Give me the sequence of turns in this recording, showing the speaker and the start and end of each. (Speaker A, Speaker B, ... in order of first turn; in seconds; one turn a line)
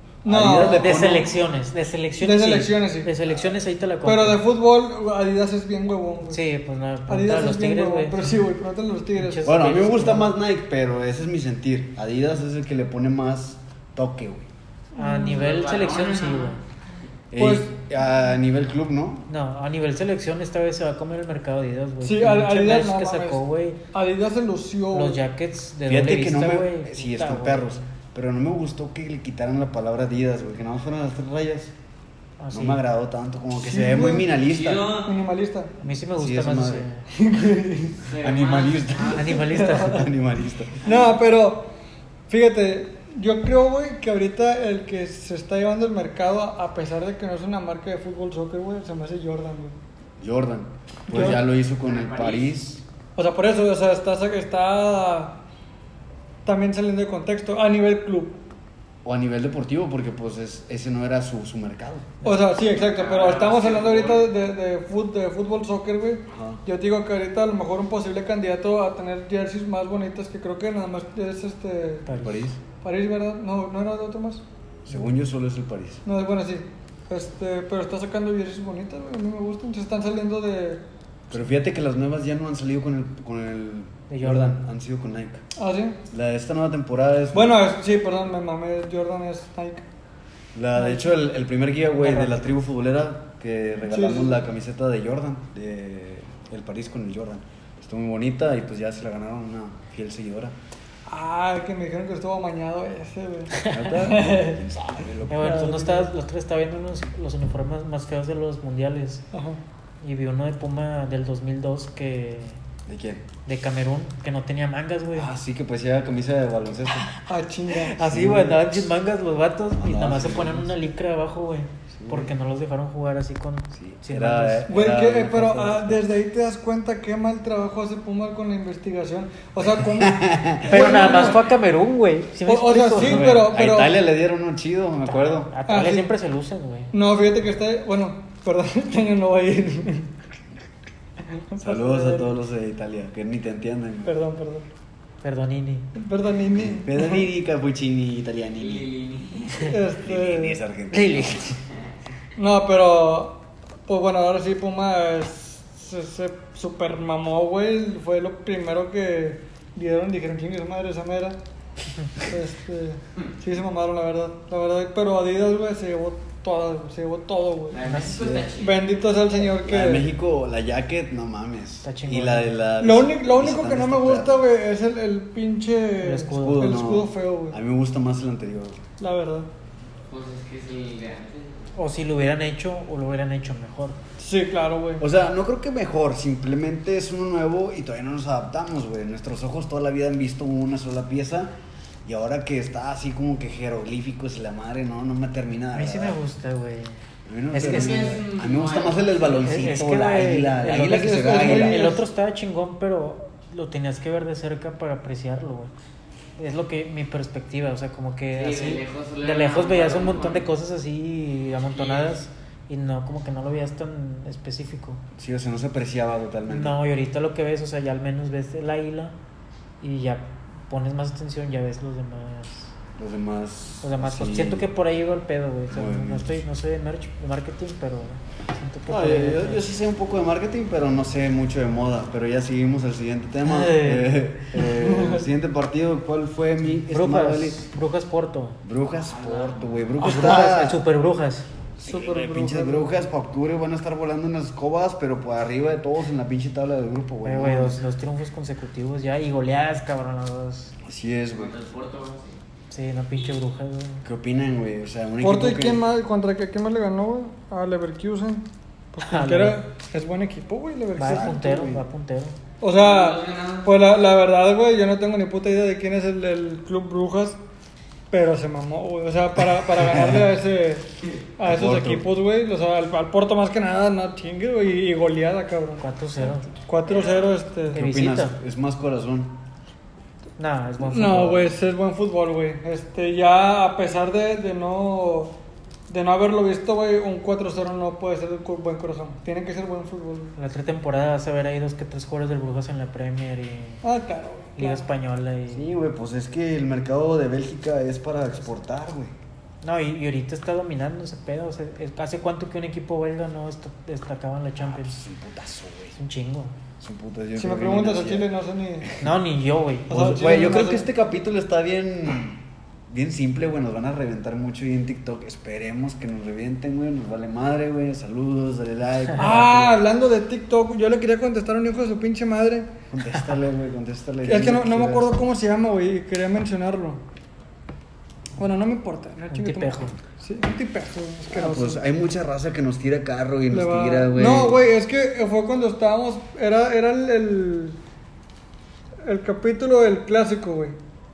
Speaker A: 0.2-1.0
Speaker B: 0.2-1.3
Speaker C: 0.6-4.4
Speaker A: 2.2-3.1
Speaker A: 4.0-6.4
Speaker C: 6.3-8.4
Speaker A: 7.1-9.4
Speaker C: 9.2-10.3
Speaker B: 9.4-14.5
Speaker A: 14.9-15.3
Speaker C: 14.9-16.6
Speaker D: 15.2-16.6
Speaker B: 17.3-19.3
Speaker A: 17.4-17.7
Speaker C: 19.3-23.8
Speaker A: 22.0-23.4
Speaker A: 23.9-25.2
Speaker C: 24.9-27.8
Speaker B: 25.9-31.7
Speaker C: 32.4-32.8
Speaker B: 32.5-35.0
Speaker A: 33.5-34.3
Speaker D: 34.4-35.2
Speaker A: 34.9-35.7
Speaker C: 35.8-37.0
Speaker B: 36.1-36.9
Speaker A: 37.1-38.1
Speaker D: 38.0-39.3
Speaker B: 38.2-40.8
Speaker C: 39.1-40.1
Speaker A: 39.3-40.0
Speaker A: 40.8-41.7
Speaker A: 42.3-49.7
Speaker B: 50.2-52.8
Speaker A: 51.1-51.4
Speaker D: 51.8-52.5
Speaker A: 53.1-55.4
Speaker A: 56.4-58.4
Speaker B: 59.0-62.2
Speaker A: 62.2-72.1
Speaker D: 62.7-64.3
Speaker B: 66.3-66.6
Speaker C: 72.0-72.5
Speaker B: 72.2-72.6
Speaker A: 72.8-74.4
Speaker B: 74.8-76.0
Speaker A: 76.0-80.8
Speaker B: 81.3-85.4
Speaker C: 84.1-84.6
Speaker A: 85.6-86.0
Speaker B: 86.1-87.6
Speaker A: 87.3-89.8
Speaker B: 90.5-100.5
Speaker A: 90.8-91.0
Speaker C: 92.0-92.4
Speaker A: 93.9-94.3
Speaker A: 101.1-104.7
Speaker C: 103.6-103.8
Speaker B: 103.7-105.7
Speaker C: 105.3-109.2
Speaker A: 105.3-106.1
Speaker A: 109.3-109.6
Speaker C: 110.0-112.6
Speaker B: 112.9-113.2
Speaker C: 113.5-115.3
Speaker B: 115.1-117.1
Speaker A: 117.3-118.0
Speaker C: 117.7-124.7
Speaker B: 118.0-118.9
Speaker B: 119.8-120.7
Speaker B: 121.9-122.3
Speaker B: 123.7-126.1
Speaker A: 124.7-131.4
Speaker B: 129.7-131.3
Speaker C: 130.7-133.4
Speaker A: 132.4-134.0
Speaker B: 132.9-135.6
Speaker C: 135.1-136.9
Speaker A: 135.7-136.1
Speaker A: 136.9-140.1
Speaker A: 141.3-142.3
Speaker B: 141.6-144.1
Speaker A: 144.0-144.7
Speaker C: 145.2-145.9
Speaker A: 145.9-147.2
Speaker B: 146.5-148.8
Speaker D: 148.6-149.8
Speaker A: 149.6-150.6
Speaker B: 150.0-151.6
Speaker C: 150.9-151.6
Speaker A: 152.4-161.4
Speaker A: 162.2-167.8
Speaker D: 167.7-169.0
Speaker C: 167.8-168.4
Speaker B: 168.2-168.4
Speaker A: 168.6-170.1
Speaker B: 169.4-174.4
Speaker C: 171.8-172.5
Speaker A: 172.8-177.6
Speaker C: 176.0-176.8
Speaker B: 176.3-178.8
Speaker A: 179.0-179.5
Speaker D: 180.1-181.8
Speaker C: 181.8-184.0
Speaker A: 184.2-185.1
Speaker B: 185.0-191.5
Speaker B: 192.0-196.2
Speaker C: 195.7-198.2
Speaker B: 197.3-201.9
Speaker D: 197.6-199.8
Speaker C: 199.4-205.7
Speaker A: 200.7-202.0
Speaker C: 206.4-215.0
Speaker D: 208.3-210.4
Speaker D: 211.7-212.1
Speaker B: 215.2-216.8
Speaker C: 216.5-219.1
Speaker C: 219.8-222.7
Speaker B: 223.0-224.7
Speaker C: 223.8-229.6
Speaker B: 225.7-226.4
Speaker B: 228.9-237.7
Speaker C: 233.4-234.2
Speaker A: 234.6-235.3
Speaker C: 236.9-238.6
Speaker B: 238.6-240.8
Speaker D: 238.9-239.9
Speaker C: 240.0-241.5
Speaker B: 241.8-247.8
Speaker A: 241.8-242.9
Speaker C: 247.2-250.7
Speaker B: 250.8-251.5
Speaker D: 251.3-252.4
Speaker C: 252.7-254.0
Speaker B: 254.0-255.8
Speaker A: 255.2-261.4
Speaker C: 259.0-259.6
Speaker C: 260.9-262.4
Speaker B: 261.0-261.8
Speaker A: 262.6-267.4
Speaker D: 262.7-263.8
Speaker A: 268.1-270.9
Speaker B: 269.7-270.3
Speaker A: 271.4-275.8
Speaker B: 271.4-272.1
Speaker C: 275.8-276.5
Speaker A: 276.6-277.8
Speaker D: 276.8-277.4
Speaker C: 277.7-278.4
Speaker B: 277.7-279.4
Speaker C: 280.4-281.6
Speaker A: 280.8-285.3
Speaker A: 285.9-290.3
Speaker C: 290.4-293.8
Speaker A: 293.8-294.8
Speaker C: 294.6-295.7
Speaker B: 295.5-299.1
Speaker C: 299.6-305.0
Speaker B: 304.6-306.0
Speaker C: 306.0-306.5
Speaker B: 306.8-308.3
Speaker A: 307.4-308.9
Speaker C: 309.0-310.2
Speaker A: 309.9-310.9
Speaker B: 309.9-319.9
Speaker A: 319.2-322.7
Speaker B: 322.9-325.2
Speaker A: 324.2-327.0
Speaker A: 328.4-331.8
Speaker C: 329.3-329.9
Speaker B: 331.3-334.6
Speaker A: 333.5-337.8
Speaker A: 339.0-340.8